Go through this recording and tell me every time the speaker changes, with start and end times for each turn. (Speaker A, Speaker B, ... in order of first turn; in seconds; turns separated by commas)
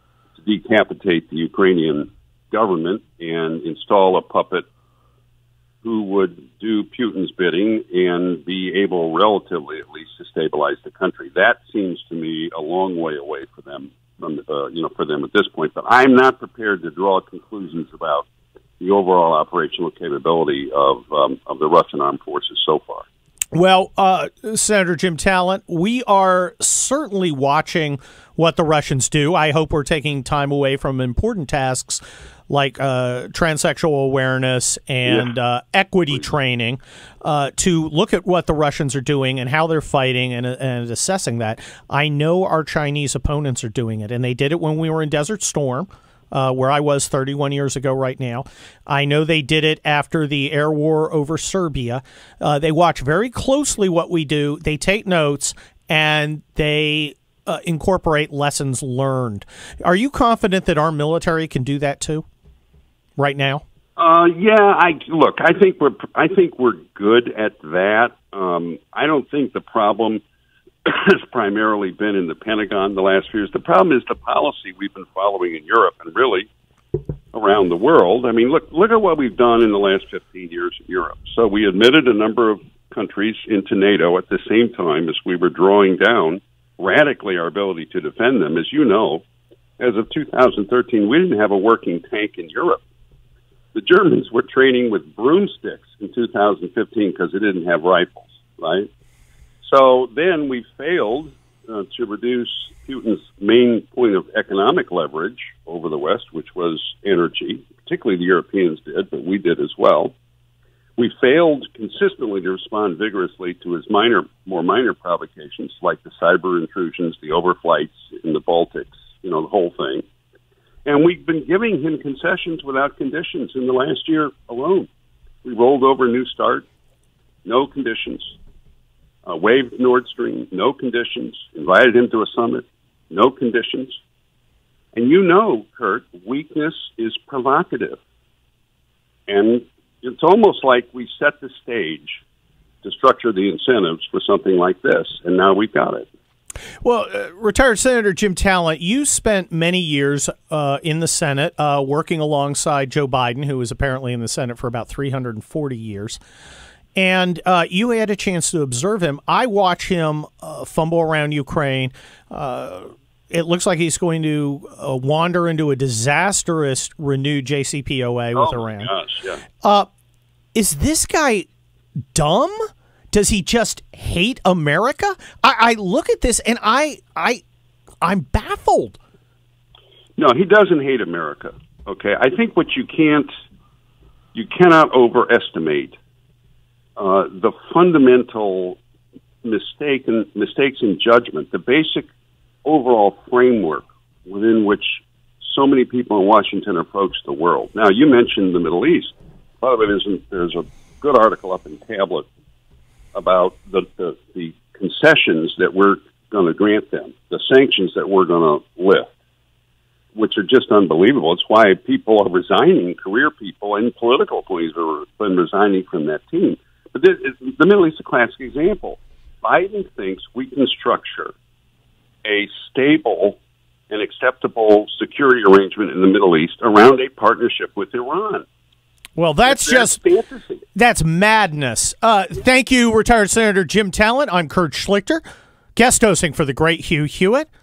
Speaker A: 0.4-4.7, Speaker A: 5.8-18.3, Speaker A: 18.8-23.1, Speaker B: 23.5-62.2, Speaker B: 63.2-63.6, Speaker A: 64.0-70.2, Speaker A: 70.8-76.5, Speaker A: 77.3-89.2, Speaker A: 89.8-92.8, Speaker A: 93.7-98.9, Speaker A: 99.6-110.1, Speaker A: 111.0-120.0, Speaker A: 120.9-124.9, Speaker A: 125.4-126.7, Speaker A: 127.5-128.4, Speaker A: 129.3-134.0, Speaker A: 134.9-138.0, Speaker A: 139.3-142.2, Speaker A: 142.8-146.1, Speaker B: 146.8-156.2, Speaker B: 157.0-168.9, Speaker A: 168.3-169.4, Speaker B: 169.6-169.9, Speaker B: 170.6-171.5, Speaker B: 172.1-177.4, Speaker B: 178.0-179.0, Speaker A: 180.2-183.3, Speaker A: 184.3-186.0, Speaker A: 187.0-188.8, Speaker A: 189.4-192.1, Speaker A: 192.7-202.3, Speaker A: 203.1-209.1, Speaker A: 210.2-221.3, Speaker A: 222.2-223.4, Speaker A: 223.9-228.4, Speaker B: 229.2-230.0, Speaker A: 229.5-230.6, Speaker B: 230.7-235.2, Speaker B: 235.8-237.5